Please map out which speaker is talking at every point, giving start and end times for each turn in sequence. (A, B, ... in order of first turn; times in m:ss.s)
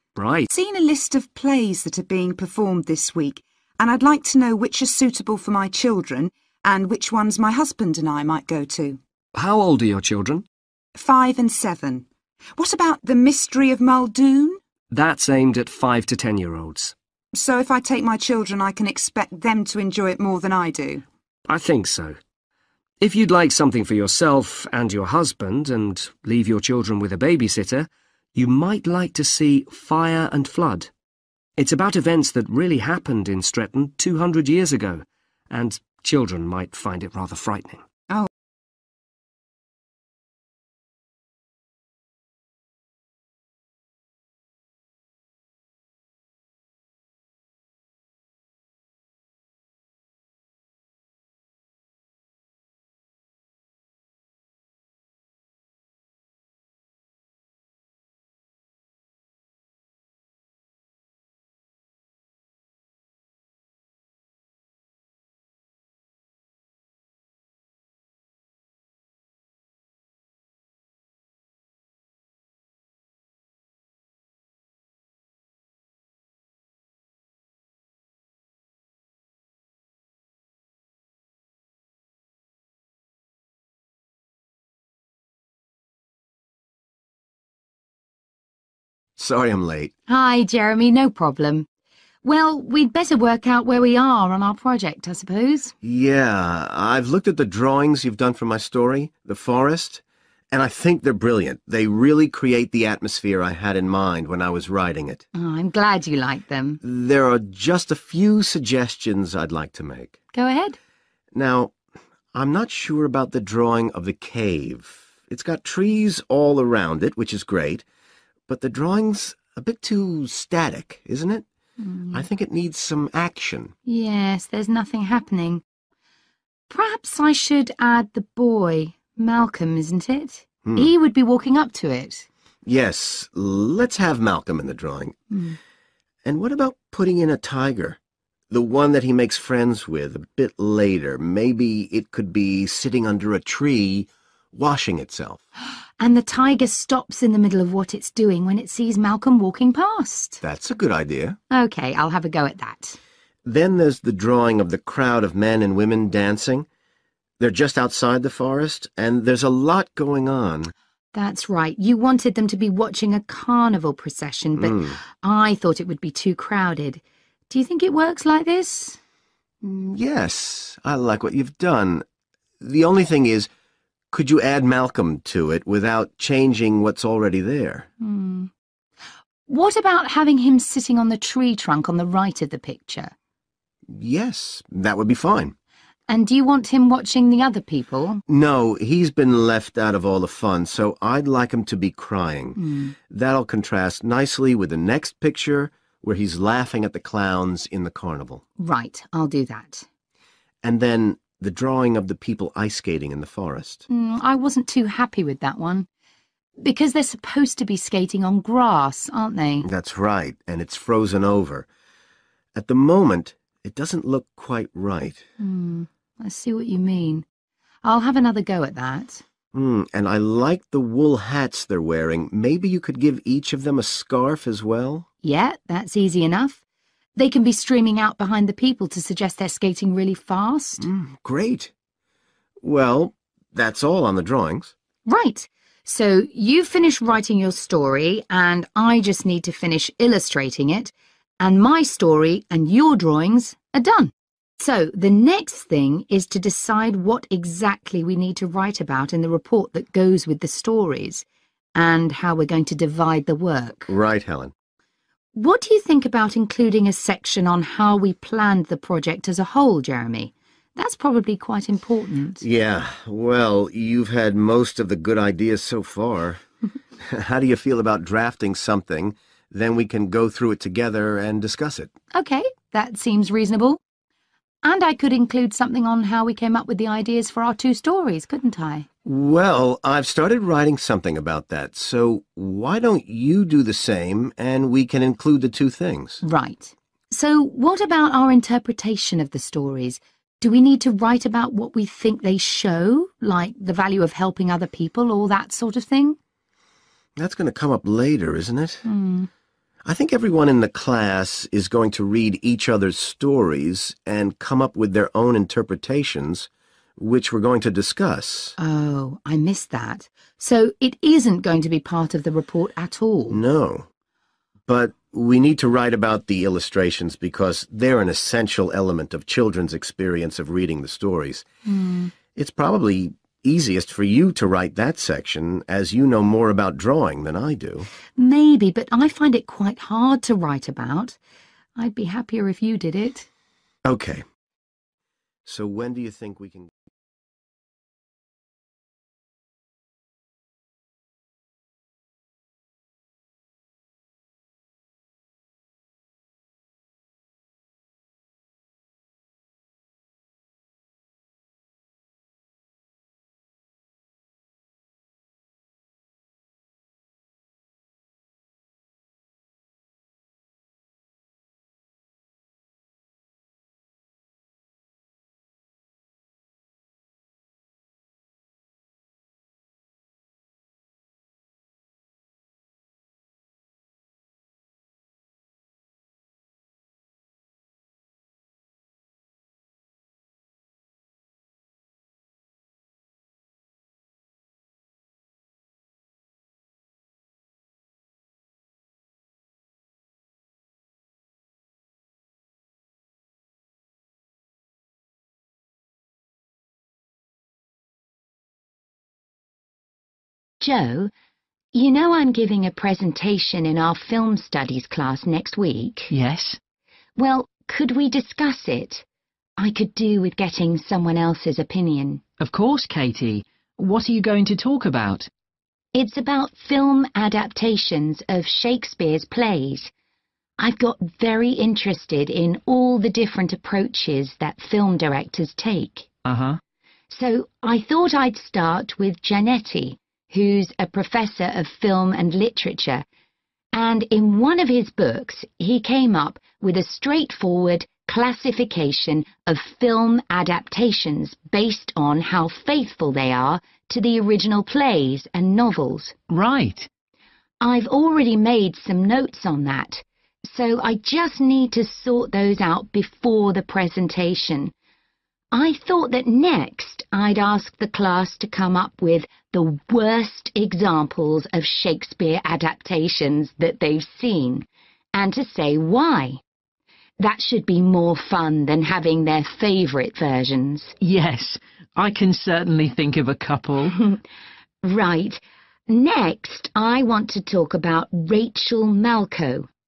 0:00.2-0:00.5 A
0:00.5-0:09.0 B
0:09.4-0:10.4 A
0:11.0-0:14.6 B
0:14.9-0:16.9 A
0:17.3-0:21.0 B
0:21.5-0:22.2 A
0:23.0-0:30.9 A
0:31.6-0:37.8 A
1:29.2-1:29.9 C
1:30.1-1:31.7 D
1:32.2-1:35.7 D
1:35.8-1:45.2 C
1:45.4-1:46.8 D
1:46.8-1:50.2 C
1:50.3-1:50.8 D
1:51.3-1:51.7 C
1:52.3-1:57.8 C
1:58.5-2:01.4 C
2:01.8-2:02.2 D
2:02.1-2:03.7 C
2:03.9-2:05.6 D
2:06.7-2:12.2 D
2:10.6-2:10.9 C
2:12.6-2:15.2 C
2:16.2-2:18.0 C
2:18.5-2:25.4 C
2:26.0-2:30.4 D
2:30.4-2:31.4 C
2:31.5-2:33.0 D
2:33.4-2:36.7 C
2:37.4-2:40.7 C
2:41.1-2:49.0 D
2:44.6-2:45.0 C
2:49.6-2:52.0 C
2:52.6-2:53.5 C
2:54.1-2:57.9 C
2:58.0-2:58.5 D
2:59.5-3:03.1 D
3:03.9-3:05.5 C
3:06.1-3:08.2 D
3:08.3-3:18.4 C
3:12.6-3:12.9 D
3:18.6-3:19.8 D
3:20.6-3:23.8 C
3:23.9-3:25.9 D
3:26.6-3:29.7 D
3:29.6-3:31.7 C
3:32.6-3:35.3 C
3:35.4-3:37.2 D
3:37.8-3:39.2 D
3:39.5-3:45.1 C
3:45.2-3:46.6 D
3:47.2-3:50.8 D
3:50.8-3:51.7 C
3:52.6-3:54.7 C
3:55.1-4:11.2 D
4:11.8-4:13.9 D
4:13.9-4:14.5 C
4:15.4-4:22.4 D
4:22.4-4:26.4 C
4:27.0-4:31.9 C
4:32.1-4:33.8 D
4:34.6-4:38.8 D
4:39.0-4:46.2 C
4:46.2-4:56.2 D
4:57.2-4:58.8 C
4:58.9-4:59.3 D
4:59.8-5:08.6 C
5:08.6-5:13.4 D
5:13.3-5:13.9 C
5:14.7-5:21.4 C
5:21.7-5:22.1 D
5:22.4-5:27.9 C
5:28.2-5:31.2 D
5:31.8-5:33.3 D
5:33.8-5:34.2 C
5:35.5-5:36.7 C
6:40.6-6:41.1 D
6:41.7-6:46.1 D
6:46.1-6:46.6 E
6:47.2-6:49.0 D
6:49.6-6:52.2 D
6:52.4-6:55.3 E
6:55.9-6:59.9 D
7:00.6-7:06.1 D
7:06.2-7:06.6 E
7:07.1-7:13.0 D
7:13.7-7:26.2 D
7:26.3-7:26.9 E
7:27.6-7:34.7 D
7:35.5-7:46.4 D
7:47.2-7:51.0 D
7:51.0-7:54.0 E
7:54.8-7:59.7 D